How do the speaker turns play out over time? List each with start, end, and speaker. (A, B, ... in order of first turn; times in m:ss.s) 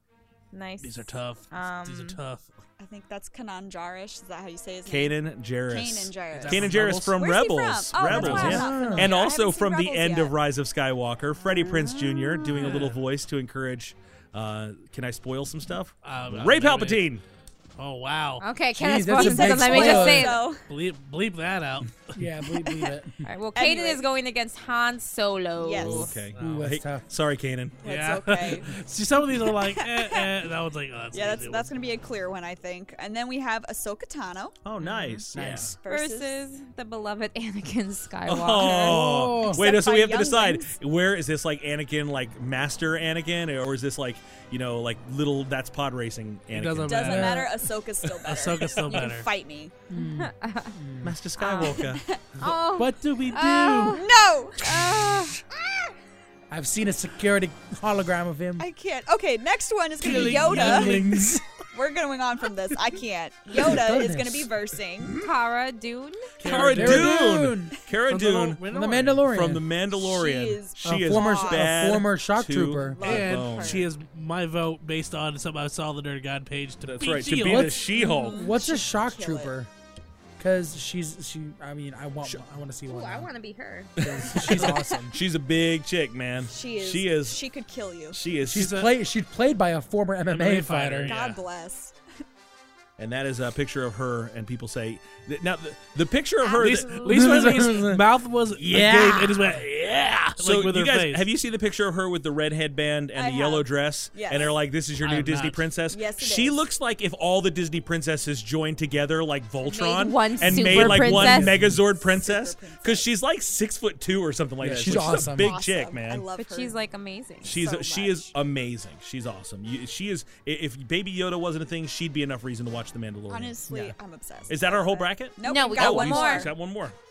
0:00.5-0:02.2 A
0:00.8-0:02.5 B
0:02.8-0:10.4 C
0:04.9-0:17.2 D
0:06.3-0:07.2 B
0:08.1-0:08.7 B
0:08.1-0:09.1 E
0:12.6-0:13.0 B
0:16.0-0:17.1 B
0:17.8-0:18.4 B
0:18.4-0:20.5 A
0:18.7-0:20.4 E
0:19.1-0:20.6 C
0:20.6-0:22.2 B
0:22.1-0:23.2 E
0:22.6-0:22.9 C
0:23.2-0:26.1 A
0:23.5-0:24.0 C
0:25.6-0:26.2 C
0:25.7-0:27.8 D
0:26.4-0:26.7 B
0:26.4-0:27.0 E
0:27.8-0:28.7 C
0:27.8-0:31.7 B
0:29.5-0:30.3 C
0:31.1-0:34.6 C
0:34.6-0:35.7 D
0:34.8-0:35.2 A
0:35.3-0:35.7 E
0:35.4-0:35.7 B
0:35.5-0:36.4 C
0:35.9-0:39.0 A
0:38.2-0:47.3 D
0:38.7-0:39.6 E
0:39.4-0:40.7 C
0:46.5-0:47.5 B
0:46.8-0:49.7 C
0:47.0-0:47.5 E
0:48.2-0:49.3 B
0:49.9-0:51.2 E
0:50.0-0:50.8 A
0:51.0-0:52.6 D
0:51.4-0:51.8 A
0:51.4-0:52.3 C
0:52.4-0:54.1 A
0:52.7-0:54.0 B
0:53.9-0:55.8 C
0:54.6-0:55.4 A
0:56.5-0:58.7 E
0:58.6-1:05.2 C
1:00.0-1:01.5 E
1:00.0-1:01.1 B
1:03.5-1:04.5 E
1:05.0-1:05.3 D
1:05.2-1:06.3 A
1:06.4-1:07.2 B
1:06.4-1:08.6 D
1:06.5-1:07.8 E
1:08.1-1:09.2 B
1:08.7-1:09.6 E
1:09.2-1:13.9 D
1:09.9-1:11.8 C
1:10.8-1:13.0 E
1:12.8-1:13.9 C
1:13.0-1:17.8 B
1:16.8-1:18.4 D
1:17.4-1:19.7 E
1:17.9-1:19.5 C
1:20.4-1:23.3 E
1:22.9-1:24.0 A
1:24.0-1:25.2 E
1:24.0-1:27.4 D
1:24.4-1:24.9 B
1:26.5-1:28.2 C
1:28.1-1:28.9 D
1:28.5-1:31.1 E
1:28.5-1:28.9 B
1:30.3-1:31.4 B
1:31.1-1:32.0 C
1:33.0-1:37.0 D
1:36.5-1:37.2 C
1:36.6-1:41.2 B
1:36.6-1:37.2 A
1:37.0-1:38.0 E
1:38.6-1:39.6 E
1:40.4-1:56.2 D
1:43.1-1:44.6 C
1:45.0-1:45.7 B
1:45.9-1:46.6 C
1:49.6-1:51.6 A
1:50.4-1:51.8 E
1:51.9-1:53.1 C
1:54.6-1:55.6 E
1:55.0-1:56.8 C
1:55.5-1:55.8 A
1:56.4-1:57.6 A
1:57.4-2:03.6 D
1:57.4-1:58.3 C
2:03.3-2:06.5 C
2:03.7-2:04.0 E
2:04.5-2:07.0 D
2:05.4-2:06.5 A